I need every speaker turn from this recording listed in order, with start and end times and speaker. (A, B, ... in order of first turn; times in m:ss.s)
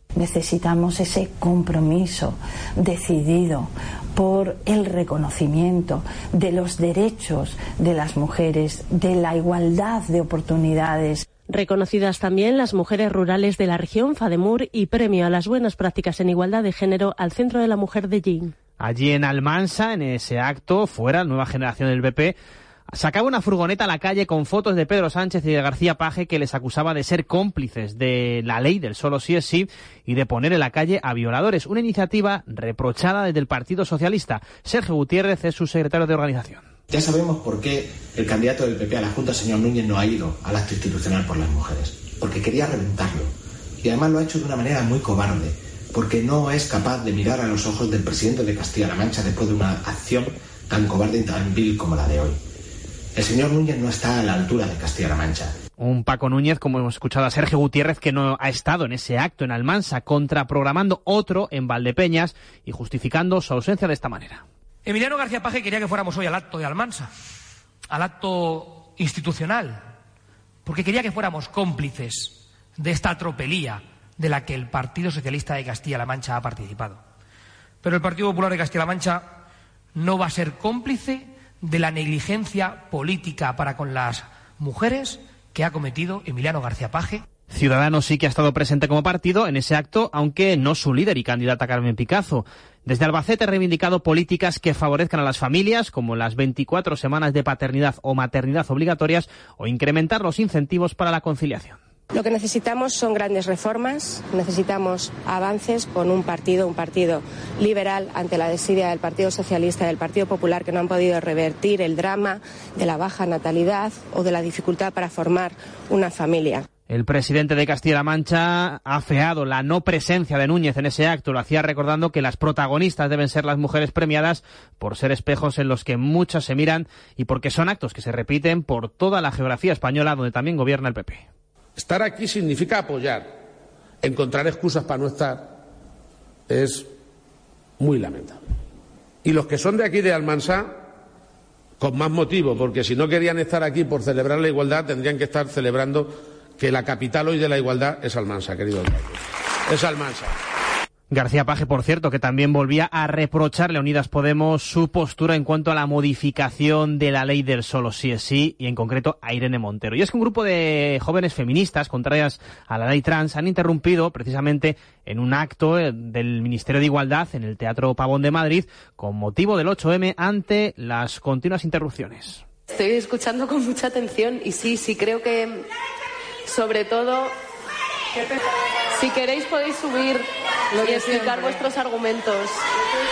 0:00.2-0:11.3 A
0:11.5-0:18.5 B
0:18.8-0:22.4 C
0:22.9-0:36.6 C
0:36.9-0:43.3 D
0:43.8-0:52.4 D
0:53.2-0:55.5 D
0:55.8-1:04.4 C
1:04.9-1:07.1 E
1:07.9-1:09.8 E
1:10.7-1:17.0 E
1:17.8-1:19.3 E
1:20.0-1:27.2 E
1:27.5-1:41.8 C
1:42.1-1:56.6 F
1:56.9-2:11.2 C
2:11.8-2:13.4 G
2:14.0-2:15.6 G
2:16.5-2:16.9 G
2:17.8-2:18.4 G
2:19.2-2:20.9 G
2:21.8-2:29.1 G
2:29.7-2:30.3 G
2:31.1-2:52.4 C
2:53.1-2:53.6 F
2:54.2-2:55.1 H
2:56.5-2:57.3 H
2:58.9-3:02.6 H
3:00.8-3:01.3 F